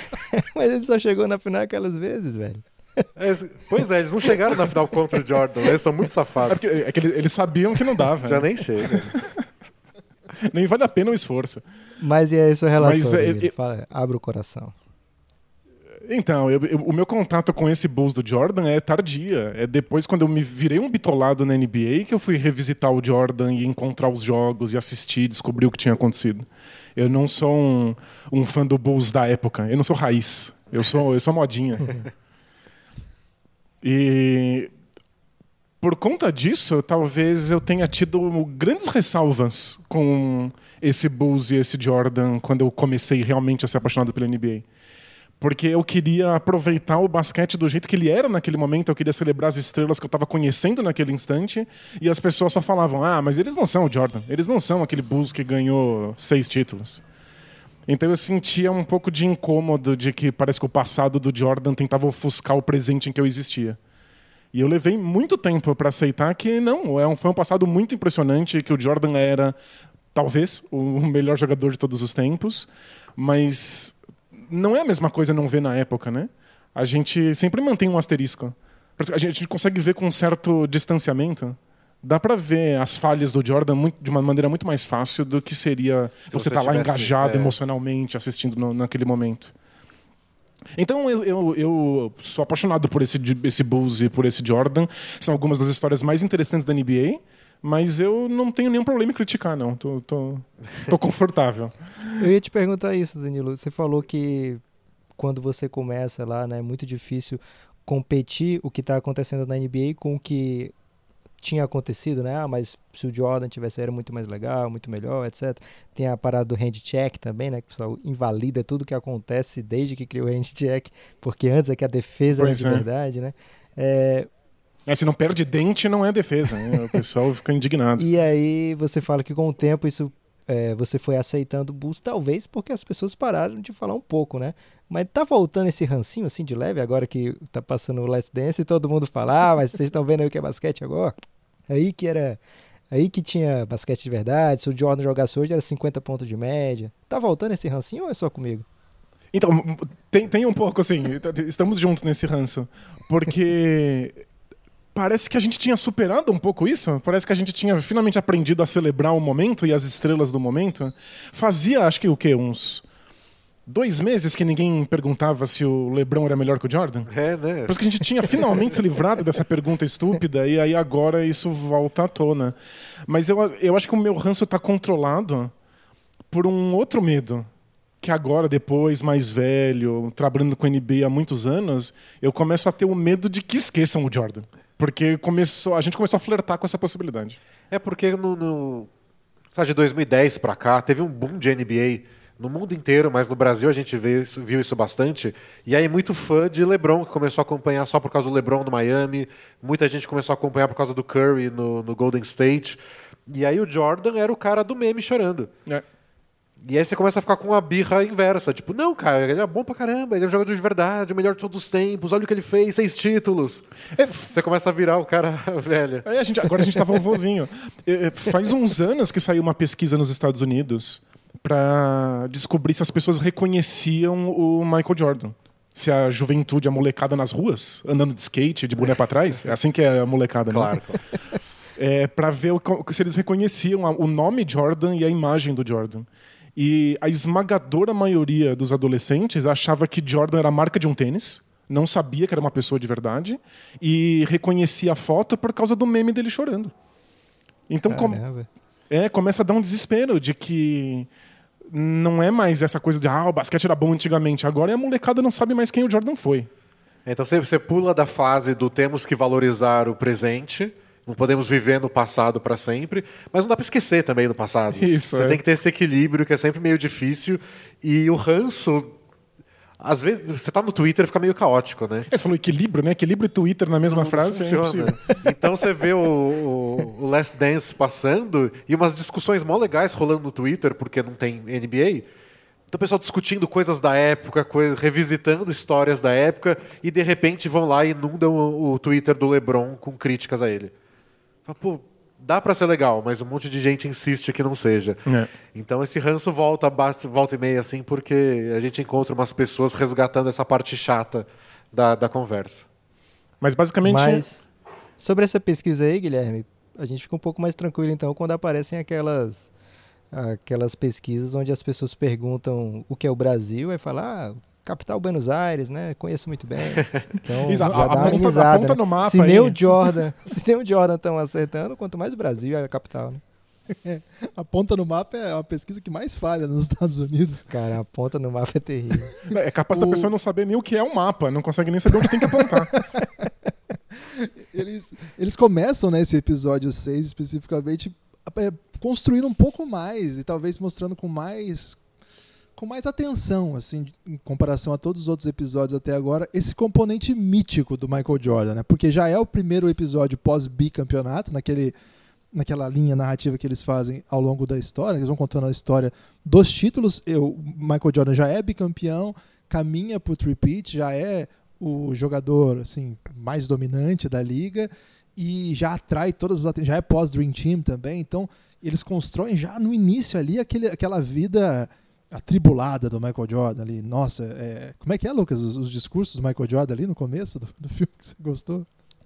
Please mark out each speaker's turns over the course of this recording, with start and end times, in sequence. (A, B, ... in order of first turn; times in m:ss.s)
0:00.2-0:03.0 A
0:03.2-0:06.6 B
0:06.5-0:09.3 C
0:08.2-0:09.1 B
0:10.4-0:11.6 C
0:12.0-0:14.7 A
0:12.8-0:13.5 C
0:16.0-0:32.1 C
0:33.8-0:34.7 C
0:35.8-0:44.6 C
0:45.4-0:57.0 C
0:57.9-1:03.8 C
1:04.5-1:09.5 C
1:10.1-1:13.9 C
1:14.5-1:29.5 C
1:26.3-1:27.6 B
1:30.8-1:41.7 C
1:42.2-1:44.6 A
1:45.2-1:50.7 A
1:51.4-2:04.3 A
2:02.3-2:02.8 C
2:04.9-2:08.0 C
2:08.0-2:21.1 A
2:21.7-2:22.4 A
2:22.9-2:28.6 A
2:29.3-2:34.2 C
2:34.9-2:42.8 C
2:43.6-2:47.1 C
2:47.1-2:48.5 B
2:47.7-2:52.5 C
2:53.1-2:55.5 C
2:56.3-2:57.5 C
2:58.0-3:07.4 C
3:07.7-3:08.9 B
3:09.5-3:25.5 B
3:26.6-3:33.7 B
3:34.0-3:34.4 C
3:34.3-3:36.0 B
3:36.0-3:50.8 C
3:50.5-3:51.0 B
3:51.8-4:06.7 C
4:07.7-4:08.2 C
4:07.9-4:08.5 A
4:08.9-4:11.1 C
4:11.7-4:16.5 C
4:17.0-4:28.9 B
4:24.8-4:25.4 C
4:29.8-4:32.1 B
4:32.1-4:35.2 C
4:33.8-4:42.0 B
4:42.7-4:50.7 B
4:51.5-4:55.0 B
4:55.5-5:02.6 B
5:03.4-5:04.2 C
5:03.8-5:04.4 A
5:05.0-5:09.5 A
5:10.1-5:23.2 A
5:17.4-5:19.9 C
5:17.6-5:18.3 D
5:23.7-5:27.5 D
5:27.5-5:29.1 A
5:29.3-5:32.8 C
5:29.7-5:30.1 D
5:31.9-5:33.2 D
5:33.9-5:41.8 D
5:42.6-5:51.7 D
5:52.3-6:18.7 D